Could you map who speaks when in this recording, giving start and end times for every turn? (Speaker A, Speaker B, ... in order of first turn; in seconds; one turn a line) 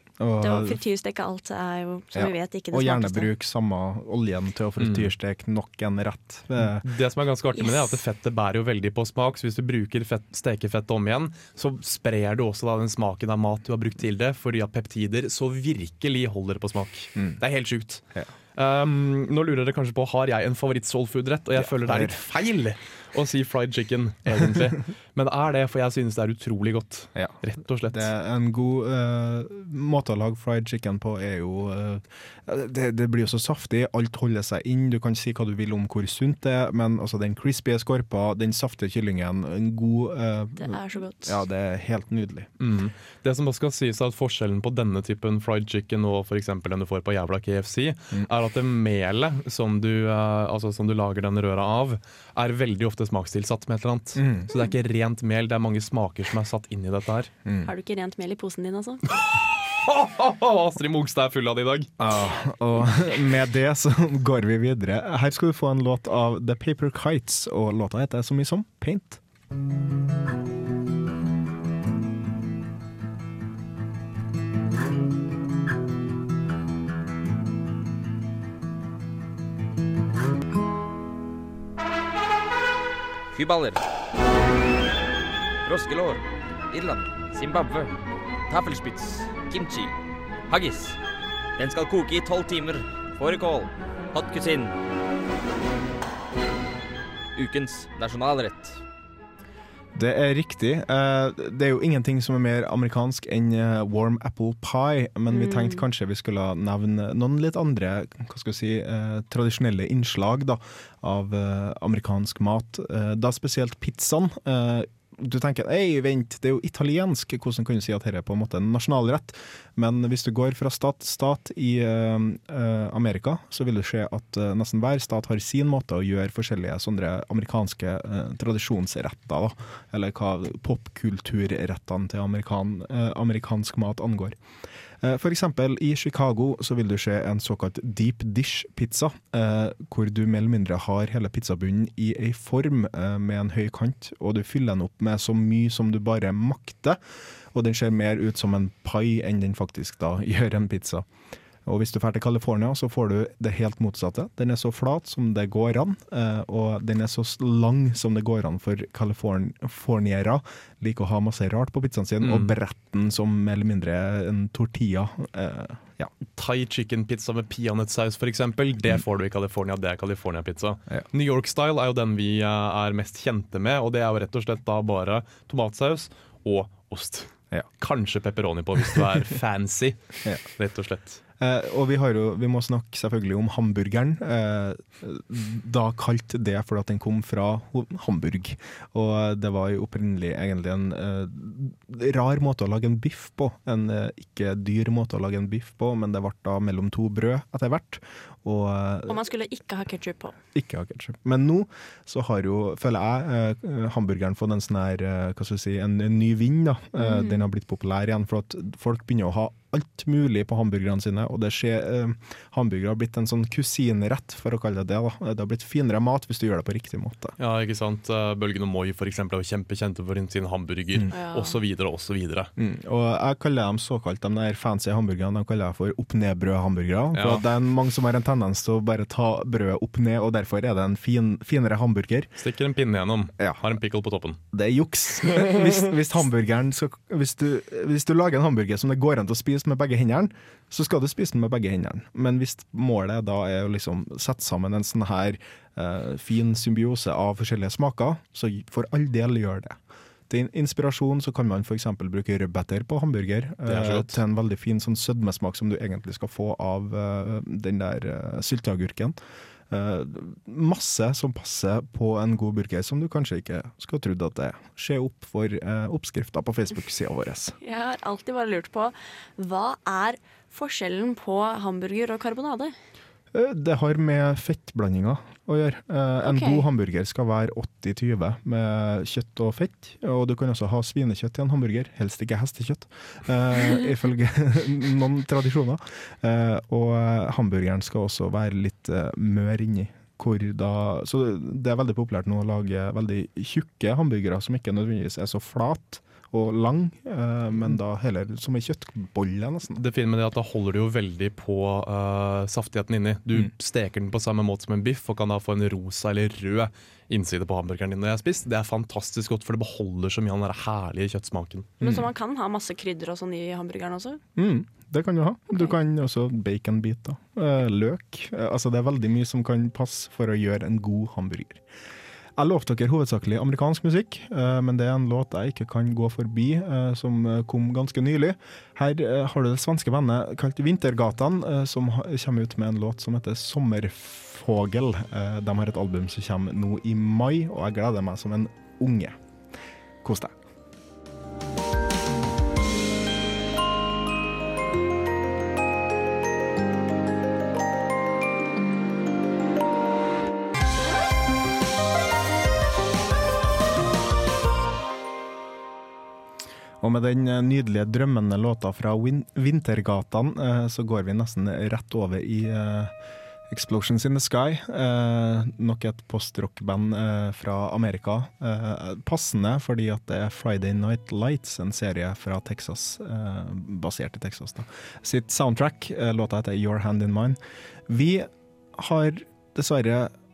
Speaker A: 0.2-0.8
Speaker B: 0.4-3.3
Speaker A: 2.1-6.8
Speaker C: 4.8-5.1
Speaker C: 6.6-18.0
Speaker C: 18.6-28.1
Speaker A: 21.6-22.1
Speaker A: 27.9-42.5
Speaker B: 40.6-41.4
Speaker C: 42.6-57.3
Speaker A: 54.1-54.5
Speaker B: 57.6-59.0
Speaker C: 59.8-61.9
Speaker A: 62.0-69.2
Speaker D: 83.3-83.8
Speaker D: 85.6-87.9
Speaker D: 88.5-89.9
Speaker D: 90.5-91.0
Speaker D: 91.6-94.7
Speaker D: 97.3-98.8
Speaker A: 99.9-134.4
Speaker B: 105.3-105.8
Speaker A: 135.0-147.0
Speaker A: 147.5-151.1
Speaker A: 151.6-166.1
Speaker C: 162.2-162.5
Speaker C: 166.3-181.2
Speaker A: 181.4-199.2
Speaker B: 199.1-200.3
Speaker A: 200.5-217.3
Speaker B: 207.0-207.4
Speaker C: 217.4-222.5
Speaker B: 221.1-221.6
Speaker A: 222.6-232.3
Speaker C: 227.1-227.4
Speaker C: 232.4-234.4
Speaker A: 234.5-259.2
Speaker C: 253.6-254.2
Speaker A: 259.7-267.6
Speaker B: 267.6-272.7
Speaker A: 273.3-299.8
Speaker B: 276.2-276.6
Speaker C: 299.7-311.8
Speaker A: 311.8-312.1
Speaker B: 311.8-314.2
Speaker A: 314.4-321.6
Speaker A: 322.4-339.2
Speaker A: 340.0-340.4
Speaker A: 356.8-362.9
Speaker A: 363.5-380.1